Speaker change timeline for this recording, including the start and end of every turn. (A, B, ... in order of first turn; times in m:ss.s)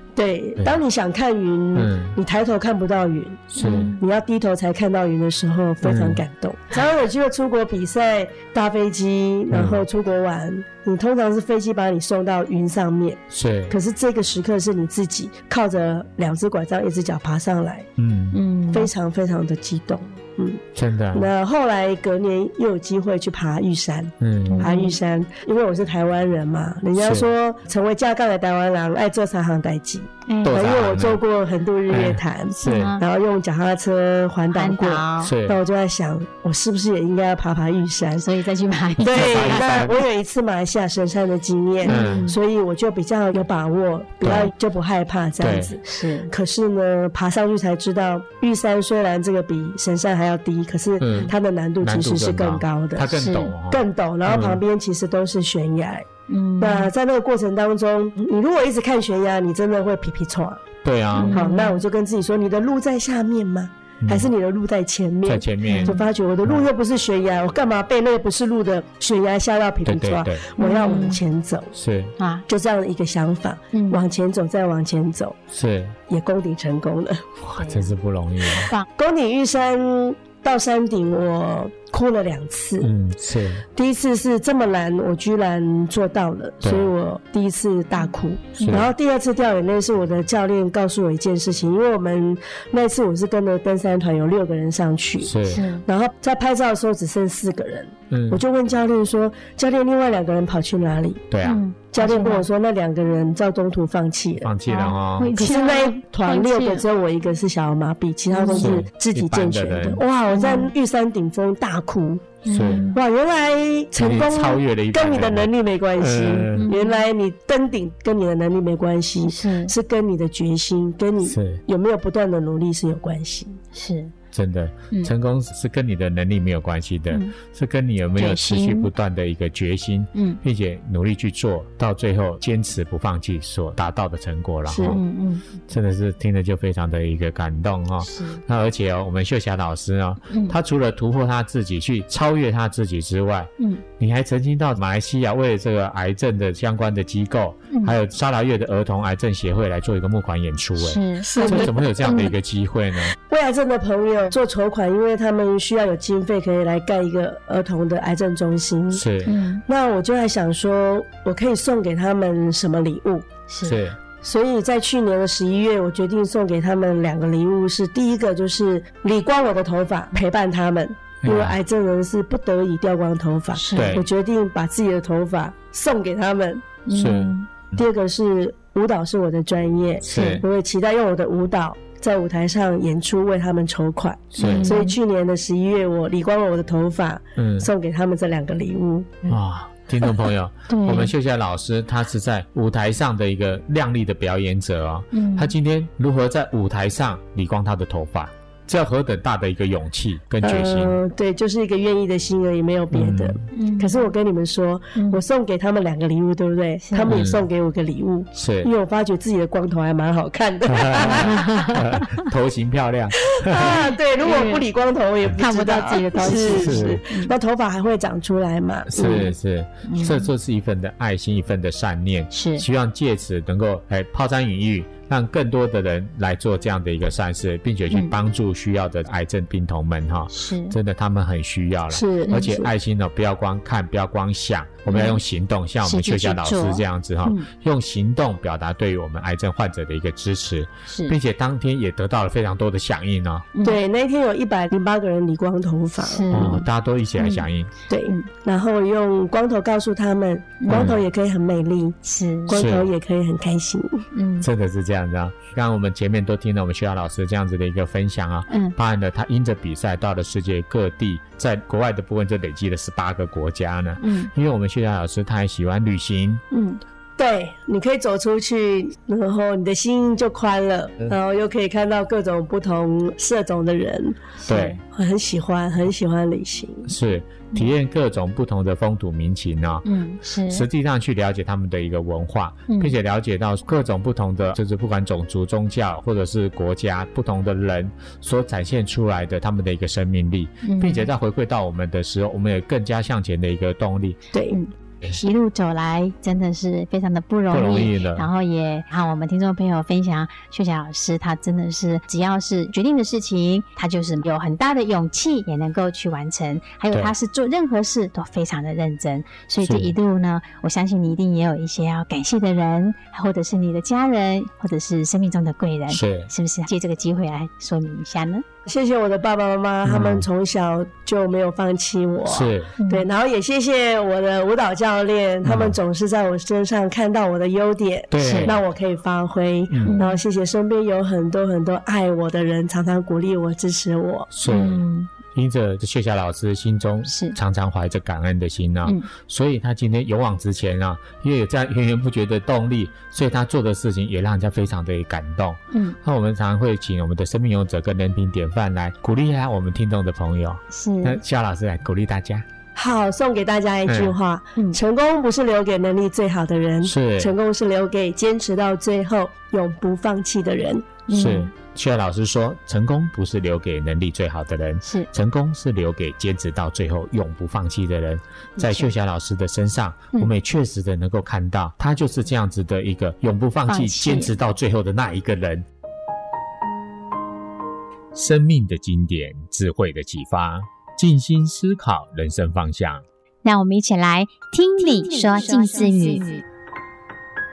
0:00.2-0:17.9 A
0:01.7-0:02.2 B
0:03.5-0:03.9 B
0:03.6-0:04.0 C
0:05.8-0:06.2 B
0:09.5-0:09.8 B
0:13.3-0:13.8 B
0:18.0-0:18.4 B
0:18.3-0:18.9 C
0:18.7-0:38.2 A
0:20.7-0:21.3 B
0:24.2-0:24.7 B
0:24.5-0:25.0 C
0:27.0-0:27.3 B
0:30.3-0:30.6 C
0:30.4-0:31.2 B
0:31.9-0:32.9 B
0:32.6-0:33.0 C
0:34.5-0:35.3 C
0:35.2-0:35.6 B
0:38.2-0:39.7 C
0:39.0-0:53.1 A
0:39.1-0:40.0 B
0:41.8-0:42.2 B
0:41.8-0:42.4 C
0:44.2-0:44.5 B
0:45.4-0:45.8 B
0:45.8-0:46.3 C
0:51.0-0:54.6 B
0:53.1-0:53.5 C
0:53.7-0:56.0 A
0:56.3-0:56.9 C
0:56.6-1:00.6 A
1:00.8-1:01.4 B
1:01.1-1:01.8 C
1:01.3-1:11.7 A
1:04.0-1:04.3 B
1:05.2-1:05.9 B
1:05.6-1:06.0 C
1:09.8-1:10.4 B
1:10.6-1:11.2 C
1:11.7-1:12.2 B
1:12.2-1:12.4 C
1:12.5-1:15.4 A
1:13.7-1:14.0 C
1:15.5-1:16.0 B
1:16.1-1:17.2 A
1:17.4-1:18.7 B
1:17.6-1:17.9 C
1:18.6-1:18.9 C
1:18.9-1:22.9 A
1:22.8-1:23.6 B
1:23.8-1:41.2 A
1:26.6-1:26.9 B
1:28.0-1:28.8 C
1:28.6-1:28.9 B
1:35.2-1:35.6 B
1:35.4-1:35.8 C
1:38.1-1:38.4 B
1:41.3-1:41.6 B
1:41.4-1:42.4 C
1:41.9-1:44.5 A
1:44.4-1:45.4 B
1:44.7-1:46.8 C
1:45.3-2:03.6 A
1:48.3-1:48.8 C
1:48.5-1:50.0 B
1:50.3-1:50.7 C
1:52.4-1:53.0 C
1:52.5-1:52.9 B
1:54.0-1:56.7 B
1:56.5-1:57.0 C
1:59.3-1:59.7 C
2:01.2-2:01.6 B
2:03.7-2:04.1 C
2:04.3-2:15.0 B
2:08.2-2:08.9 C
2:10.1-2:10.4 C
2:14.7-2:15.0 A
2:14.9-2:15.6 C
2:15.7-2:33.2 B
2:18.0-2:18.4 C
2:20.3-2:20.6 C
2:30.8-2:32.3 C
2:31.2-2:31.8 A
2:33.3-2:39.0 A
2:38.9-2:39.3 B
2:39.2-2:39.6 C
2:39.6-2:43.2 A
2:43.5-2:43.8 C
2:43.6-2:44.0 B
2:44.2-2:56.8 A
2:51.2-2:51.6 B
2:53.6-2:54.0 C
2:53.7-2:54.0 B
2:56.9-2:57.5 C
2:56.9-2:57.3 B
2:57.8-3:09.2 A
3:00.0-3:00.4 B
3:00.1-3:00.4 C
3:04.3-3:04.8 B
3:04.4-3:04.9 C
3:07.4-3:07.7 B
3:09.3-3:21.0 B
3:10.7-3:11.1 C
3:15.1-3:15.5 C
3:20.4-3:31.4 A
3:22.9-3:23.4 B
3:23.5-3:24.0 C
3:24.9-3:25.2 C
3:26.8-3:27.2 C
3:27.1-3:27.4 B
3:28.3-3:28.7 B
3:30.6-3:33.9 B
3:31.0-3:32.3 C
3:33.3-3:39.3 A
3:34.2-3:34.6 C
3:35.4-3:37.3 C
3:36.4-3:37.0 B
3:38.9-4:03.5 B
3:39.0-3:39.3 C
3:39.9-3:40.3 C
3:42.3-3:42.6 C
3:50.3-3:50.7 C
3:51.9-3:52.7 A
3:52.2-3:52.5 C
3:54.9-3:55.2 C
3:55.8-3:57.5 C
4:00.9-4:01.1 C
4:03.6-4:06.5 A
4:06.0-4:06.6 C
4:06.3-4:07.7 B
4:07.2-4:07.4 C
4:07.9-4:14.0 A
4:10.6-4:10.9 C
4:10.7-4:11.0 B
4:12.0-4:12.6 C
4:12.5-4:12.9 B
4:14.1-4:14.5 C
4:14.4-4:26.4 B
4:18.5-4:18.8 C
4:24.0-4:24.3 C
4:26.5-4:26.8 C
4:27.2-4:34.2 A
4:34.4-4:34.8 C
4:34.5-4:34.8 B
4:34.9-4:36.9 A
4:36.9-4:39.9 B
4:39.8-4:40.6 C
4:40.5-4:54.2 B
4:42.7-4:42.9 C
4:50.6-4:51.1 C
4:54.3-4:54.6 A
4:54.5-5:18.4 C
4:57.5-4:58.3 B
5:09.6-5:09.9 B
5:15.9-5:16.3 B
5:18.6-5:34.3 A
5:19.8-5:20.2 B
5:22.2-5:22.7 B
5:22.8-5:23.0 C
5:25.4-5:25.8 B
5:28.1-5:28.6 B
5:28.2-5:28.5 C
5:29.7-5:30.0 B
5:29.9-5:30.2 C
5:34.3-5:52.4 B
5:34.5-5:35.1 C
5:37.0-5:37.4 C
5:50.7-5:51.2 C
5:52.8-6:01.0 A
5:53.9-5:54.2 B
5:56.8-5:57.3 B
6:01.1-6:01.5 C
6:01.1-6:15.6 B
6:08.6-6:08.9 C
6:13.7-6:14.3 C
6:18.1-6:23.0 B
6:23.4-6:26.4 C